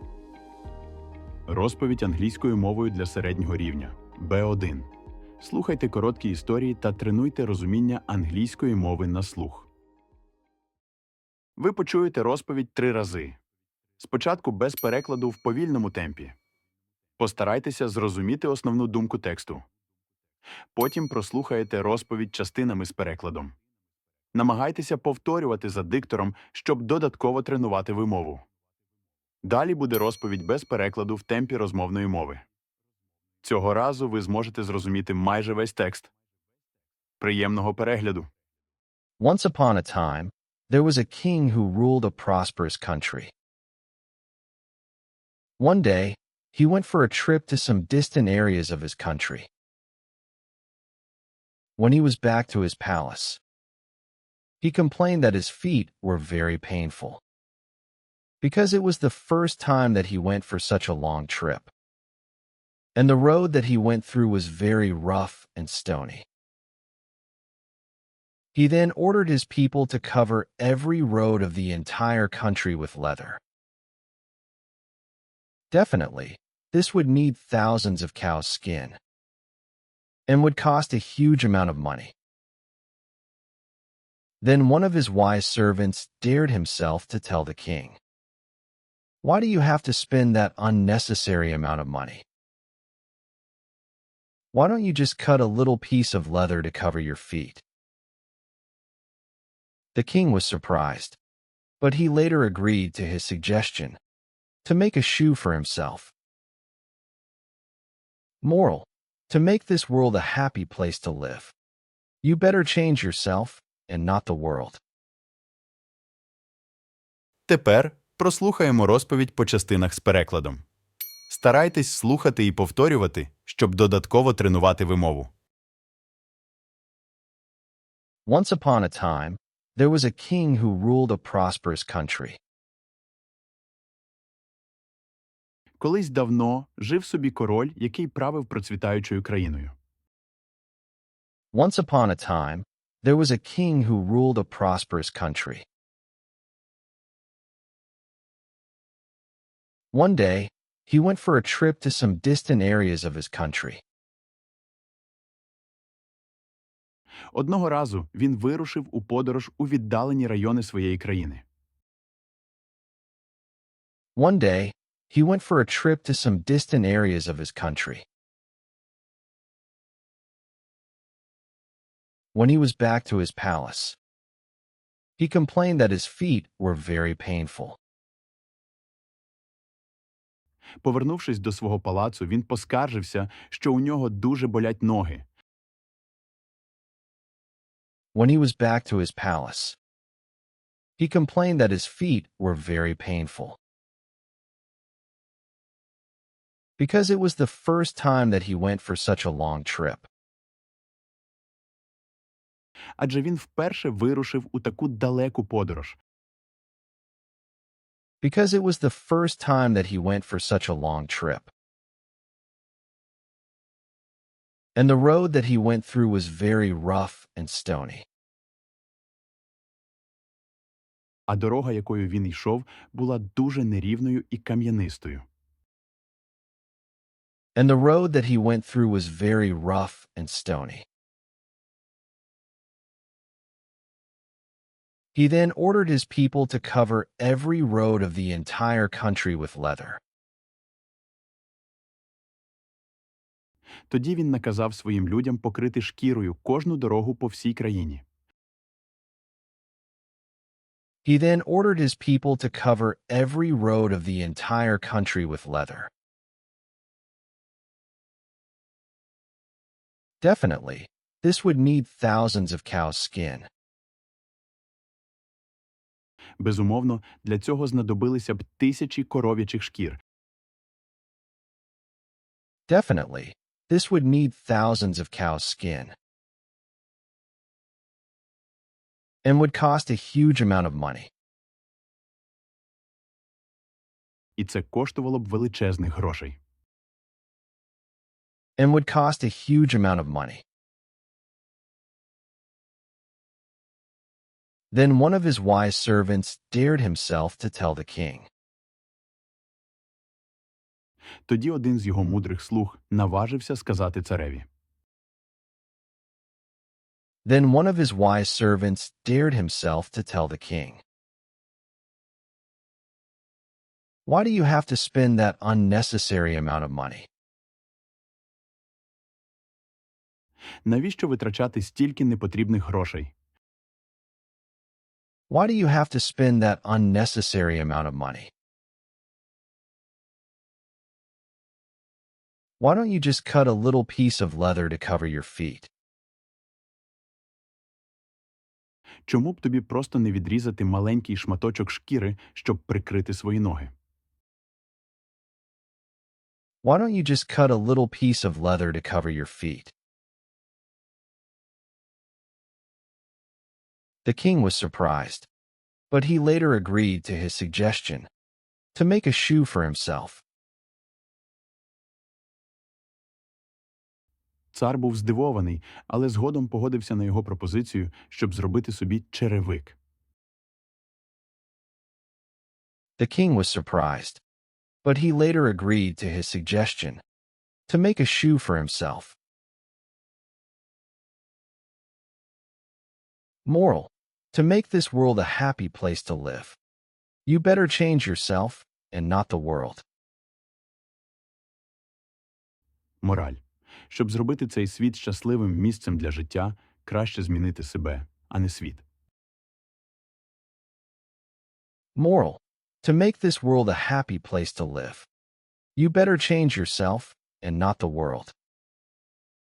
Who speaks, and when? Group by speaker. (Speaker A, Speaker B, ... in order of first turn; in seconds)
Speaker A: 1.5-9.7, 11.6-13.4, 14.0-16.4, 17.2-19.6, 20.7-23.5, 24.3-28.4, 29.4-32.4, 33.4-36.1, 37.2-38.3, 117.5-120.6, 121.3-125.3, 135.8-139.7, 157.3-161.4, 180.8-185.2, 203.0-206.0, 221.3-225.2, 243.9-248.0, 266.4-270.0, 284.4-286.4, 301.3-304.4, 320.6-323.1, 339.1-343.7, 364.5-369.8, 393.0-398.8
Speaker B: 39.2-43.3, 45.6-49.5, 51.8-53.4, 54.6-57.2, 58.4-61.7, 63.0-66.2, 68.5-73.4, 75.7-79.0, 80.3-82.1, 84.4-88.0, 89.2-92.2, 94.5-97.6, 99.9-101.2, 101.8-104.0, 104.6-106.1, 108.4-111.5, 112.2-114.8, 128.3-132.4, 141.5-145.6, 149.9-153.8, 164.2-168.0, 172.3-174.0, 175.2-177.8, 188.1-189.8, 191.0-193.6, 196.8-200.1, 208.2-211.5, 214.8-218.0, 227.6-230.8, 235.1-240.0, 251.0-255.9, 260.2-263.5, 272.7-275.9, 279.2-281.1, 288.6-290.4, 294.7-298.3, 307.2-310.8, 314.1-317.1, 325.3-328.3, 332.6-335.7, 346.6-349.7, 354.0-355.3, 355.9-358.1, 358.7-360.2, 373.0-374.2, 374.8-377.0, 377.7-379.1, 383.4-386.6, 387.2-389.8, 401.9-405.1, 405.8-408.3